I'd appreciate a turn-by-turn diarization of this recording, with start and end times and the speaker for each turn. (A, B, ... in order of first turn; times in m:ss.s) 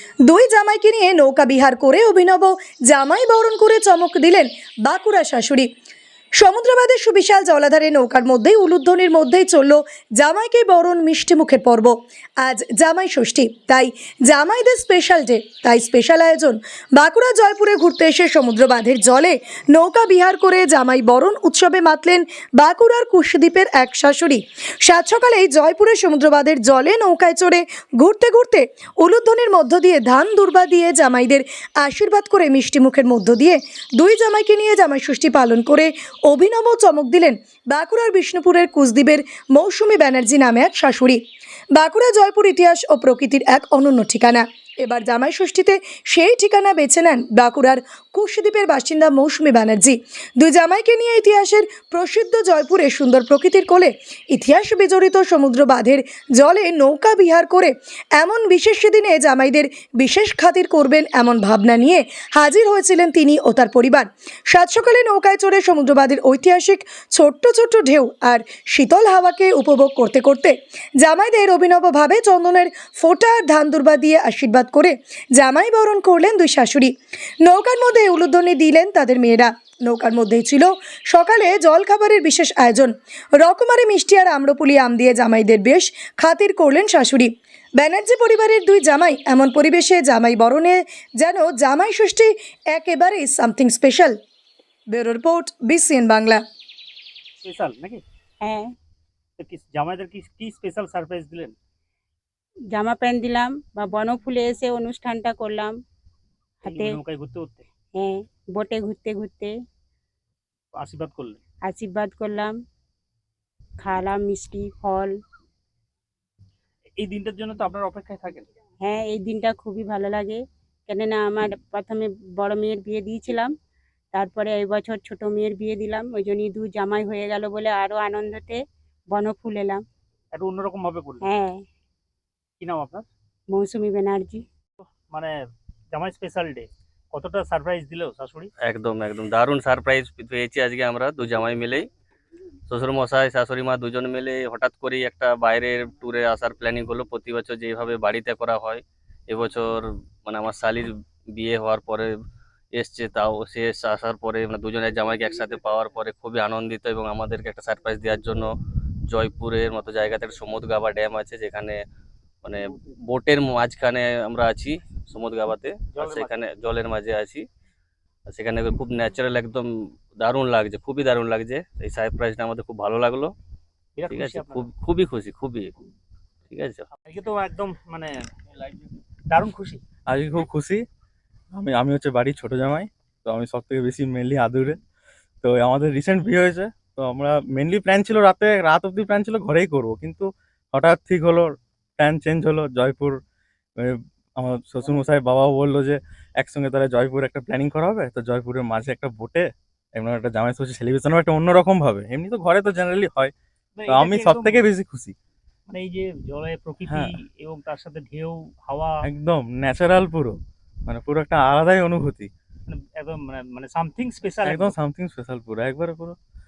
0:00.3-0:05.7 A
0:06.4-0:41.2 A
0:41.7-1:34.2 A
1:34.9-1:36.4 A
1:37.4-1:38.0 B
1:38.4-1:38.7 C
1:39.4-1:41.6 B
1:42.7-1:45.7 C
1:46.6-1:47.0 C
1:46.6-1:47.7 B
1:48.0-1:49.5 C
1:50.8-1:51.4 B
1:51.6-1:52.6 C
1:53.8-1:55.1 C
1:57.0-1:58.5 B
1:58.8-2:03.5 C
2:04.1-2:09.8 C
2:10.3-2:11.3 B
2:11.2-2:11.6 C
2:12.6-2:13.1 B
2:13.5-2:14.4 C
2:15.1-2:15.4 B
2:15.9-2:18.5 B
2:18.6-2:21.9 D
2:22.7-2:32.1 D
2:32.8-2:38.5 D
2:39.1-2:41.8 D
2:42.4-2:47.4 D
2:45.9-2:46.4 B
2:48.3-2:49.7 D
2:50.2-2:53.3 D
2:54.0-2:54.7 B
2:54.1-2:55.8 D
2:56.5-2:56.9 D
2:57.0-2:58.7 B
2:59.3-2:59.8 B
3:00.1-3:00.8 E
3:01.5-3:04.8 E
3:05.4-3:13.2 E
3:13.8-3:23.3 E
3:23.8-3:24.6 B
3:23.9-3:25.2 E
3:25.7-3:29.0 B
3:29.0-3:32.3 E
3:32.7-3:34.7 B
3:34.4-3:36.2 E